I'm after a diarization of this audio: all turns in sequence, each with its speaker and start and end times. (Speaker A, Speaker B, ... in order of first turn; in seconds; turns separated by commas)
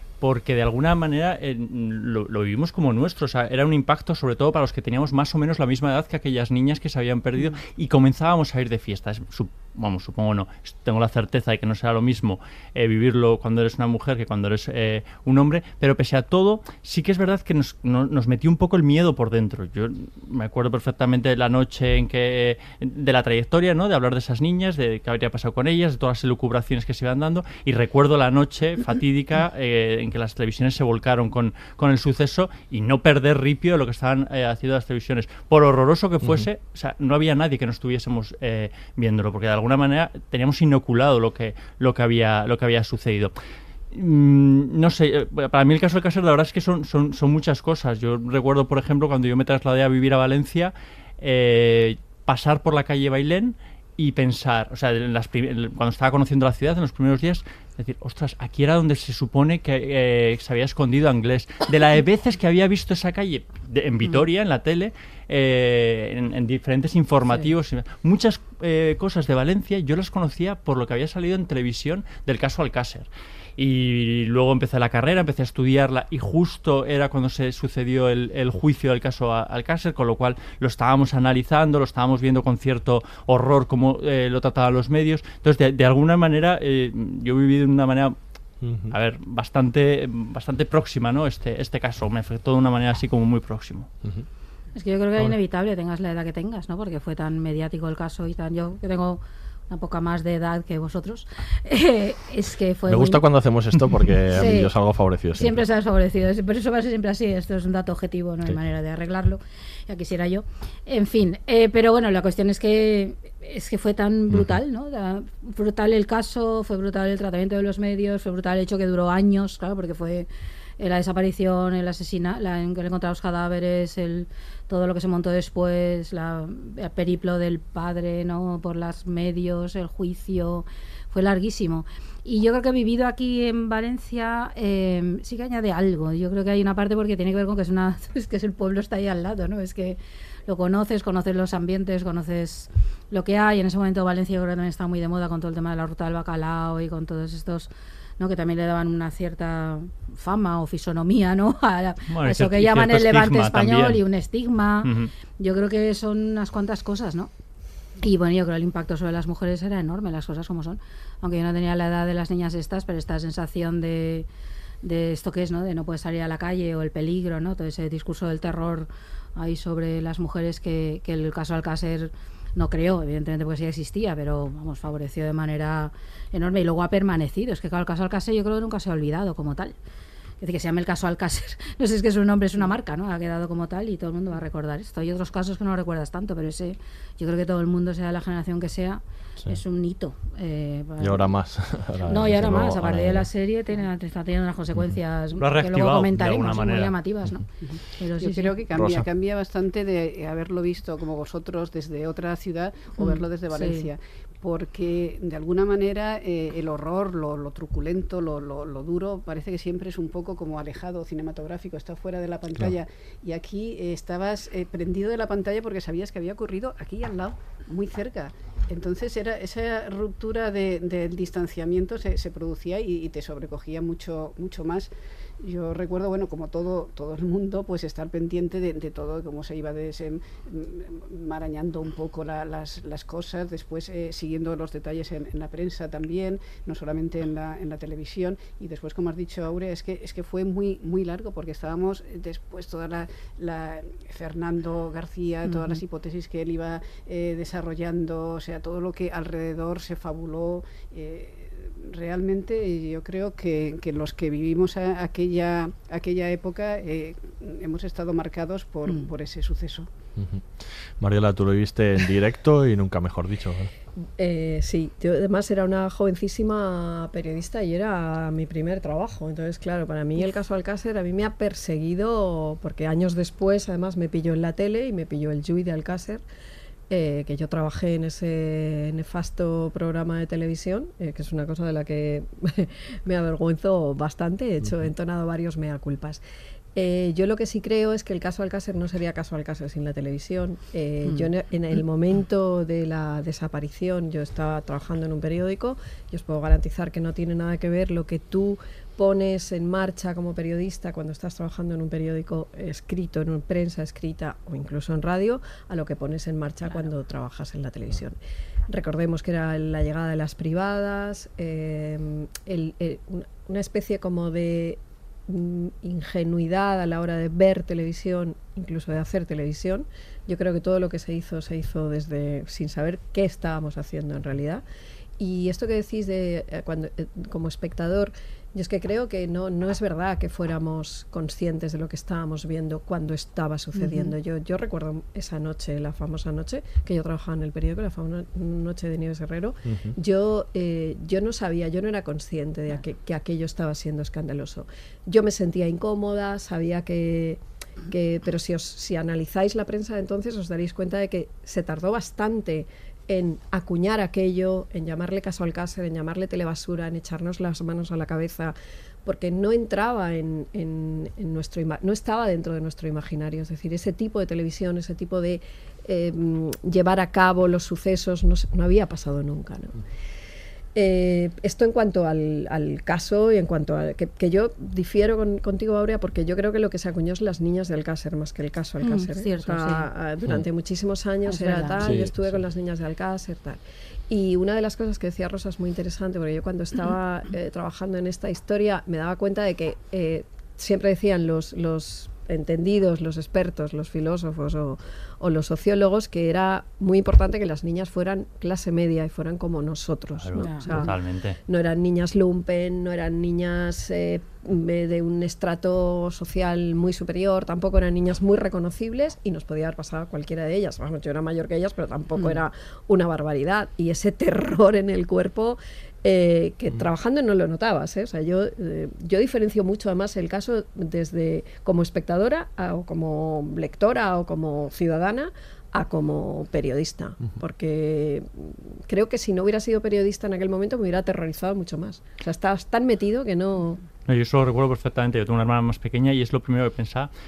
Speaker A: 0.2-43.3, Speaker B: 36.2-36.5, Speaker A: 43.9-88.2, Speaker B: 88.6-88.9, Speaker A: 88.9-93.9, Speaker C: 94.8-103.2, Speaker B: 102.9-105.6, Speaker C: 104.3-104.7, Speaker C: 105.3-120.3, Speaker B: 114.3-114.6, Speaker C: 120.8-157.3, Speaker A: 152.1-154.0, Speaker A: 154.8-155.1, Speaker C: 158.0-164.3, Speaker C: 164.8-179.7, Speaker C: 180.4-191.2, Speaker B: 191.0-193.3, Speaker C: 192.1-198.6, Speaker A: 195.4-196.9, Speaker D: 198.2-259.9, Speaker B: 198.7-199.1, Speaker C: 203.0-203.9, Speaker C: 245.4-245.8, Speaker B: 260.2-263.7, Speaker E: 264.2-276.2, Speaker E: 276.9-286.2, Speaker B: 284.6-284.9, Speaker E: 286.7-308.2, Speaker E: 308.7-324.6, Speaker E: 325.2-369.8, Speaker C: 333.7-334.1, Speaker B: 339.6-339.9, Speaker E: 370.7-400.9, Speaker C: 378.8-379.9, Speaker C: 381.3-381.8, Speaker B: 381.8-382.4, Speaker A: 400.2-401.4, Speaker C: 400.4-400.6, Speaker E: 401.5-433.8, Speaker A: 434.1-437.1